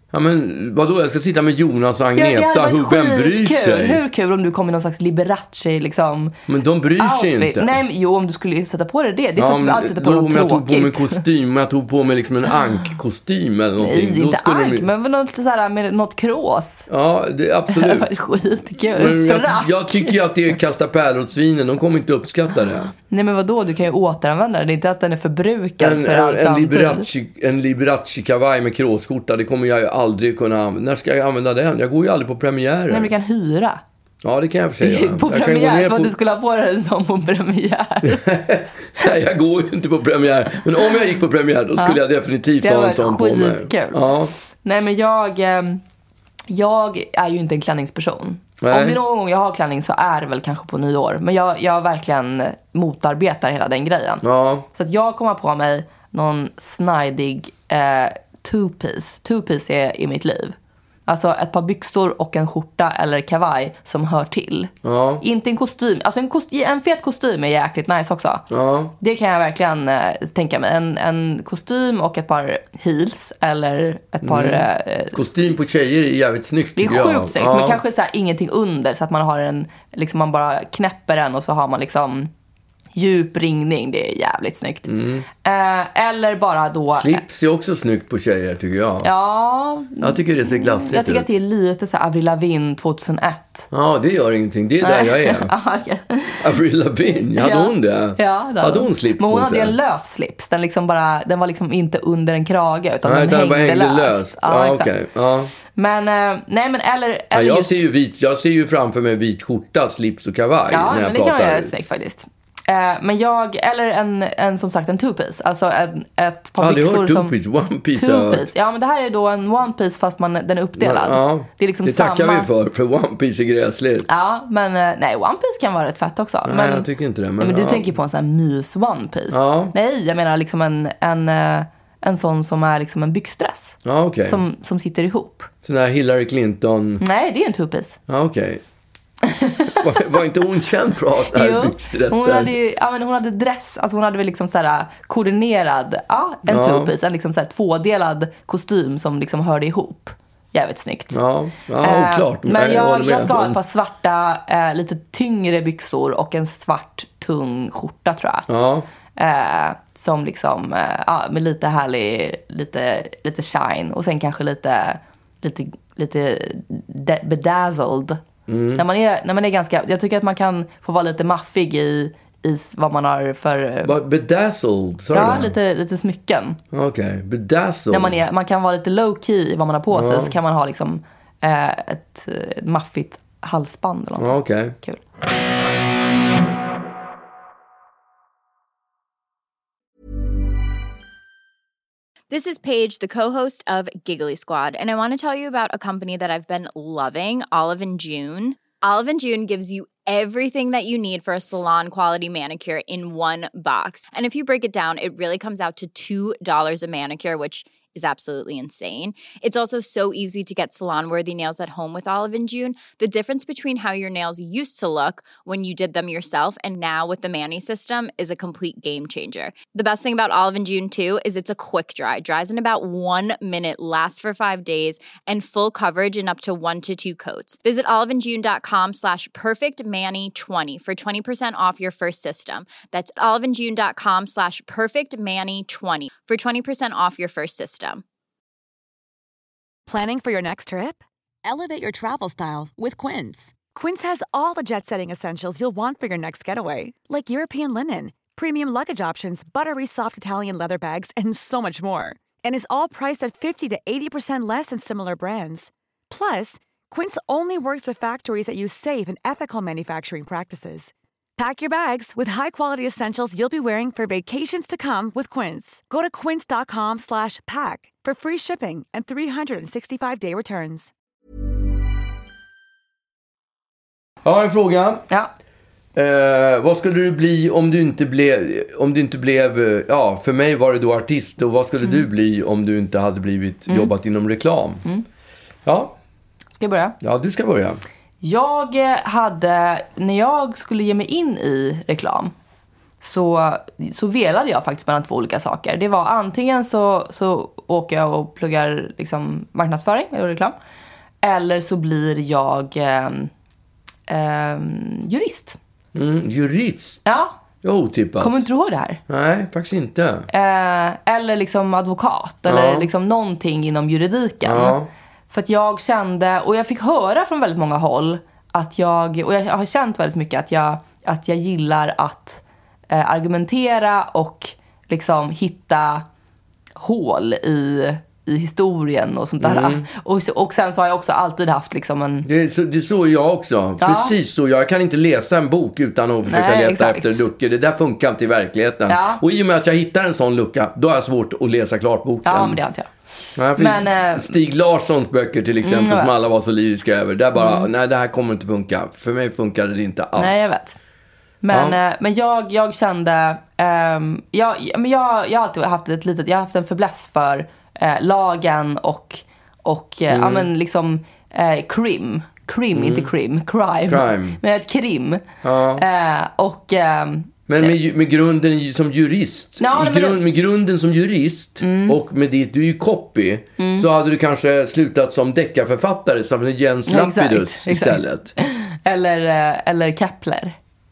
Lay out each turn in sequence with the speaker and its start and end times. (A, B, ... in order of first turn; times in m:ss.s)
0:00.1-0:04.0 A
0:02.1-0:06.4 B
0:06.5-0:07.8 A
0:07.0-0:11.2 B
0:09.4-0:14.9 A
0:13.8-0:16.9 B
0:16.9-0:18.1 A
0:17.7-0:20.2 B
0:18.8-0:22.9 A
0:23.1-0:27.1 B
0:25.8-0:33.1 A
0:32.9-0:33.8 B
0:34.2-0:36.1 A
0:34.8-0:38.2 B
0:38.0-0:44.3 A
0:42.6-0:44.0 B
0:44.6-0:45.8 B
0:46.5-1:00.5 B
0:48.6-0:49.0 A
0:54.2-0:54.7 A
1:01.1-1:08.4 B
1:04.8-1:05.2 A
1:08.5-1:08.9 A
1:09.0-1:15.2 B
1:14.2-1:17.8 A
1:16.8-1:22.3 B
1:22.9-1:24.9 B
1:24.9-1:25.3 A
1:25.4-1:27.2 B
1:26.9-1:29.1 A
1:29.0-1:33.7 B
1:30.0-1:31.3 A
1:33.7-1:35.5 A
1:34.8-1:36.5 B
1:36.4-1:39.8 A
1:37.4-1:44.9 B
1:43.0-1:45.5 A
1:45.7-1:47.8 B
1:47.3-1:51.7 A
1:50.7-1:57.3 B
1:56.6-1:58.4 A
1:57.9-2:02.5 B
2:00.8-2:04.1 A
2:04.1-2:06.9 B
2:06.4-2:07.9 A
2:07.4-2:15.5 B
2:09.3-2:09.7 A
2:13.8-2:14.4 A
2:15.6-2:17.0 A
2:17.0-2:18.0 B
2:18.1-2:18.6 A
2:19.2-2:19.9 B
2:19.8-2:22.5 A
2:21.3-2:31.2 B
2:26.4-2:26.9 A
2:31.1-2:33.6 A
2:31.8-2:38.5 B
2:38.5-2:38.9 A
2:39.2-2:48.2 B
2:48.5-2:48.8 A
2:48.8-2:53.9 B
2:53.8-2:55.5 A
2:55.1-2:56.6 B
2:56.7-2:58.2 A
2:57.9-3:05.0 B
2:59.9-3:00.3 A
3:04.2-3:04.8 A
3:12.3-3:58.0 C
3:59.9-4:30.9 D
4:34.2-4:35.0 A
4:35.9-4:44.8 A
4:45.6-4:46.0 A
4:46.6-4:47.0 B
4:47.0-4:47.8 A
4:48.2-4:52.3 B
4:53.0-5:00.5 B
5:01.2-5:03.3 B
5:04.1-5:05.6 B
5:05.9-5:07.0 A
5:07.0-5:07.4 B
5:07.6-5:08.4 A
5:08.2-5:09.0 B
5:09.1-5:10.3 A
5:10.3-5:14.8 B
5:12.5-5:12.9 A
5:14.4-5:14.9 A
5:15.3-5:26.0 B
5:26.8-5:32.3 B
5:29.4-5:29.8 A
5:32.2-5:42.6 A
5:33.8-5:34.1 B
5:36.2-5:37.2 B
5:38.9-5:39.2 B
5:42.2-5:42.9 B
5:43.4-5:50.5 A
5:43.5-5:44.3 B
5:45.6-5:46.2 B
5:47.4-5:47.7 B
5:50.2-5:50.8 B
5:51.4-6:05.2 B
5:51.5-5:51.8 A
6:00.1-6:00.5 A
6:02.7-6:03.1 A
6:03.9-6:04.4 A
6:05.4-6:05.8 A
6:05.8-6:07.7 B
6:07.5-6:18.3 A
6:09.6-6:10.2 B
6:11.6-6:12.0 B
6:13.6-6:13.9 B
6:16.9-6:20.6 B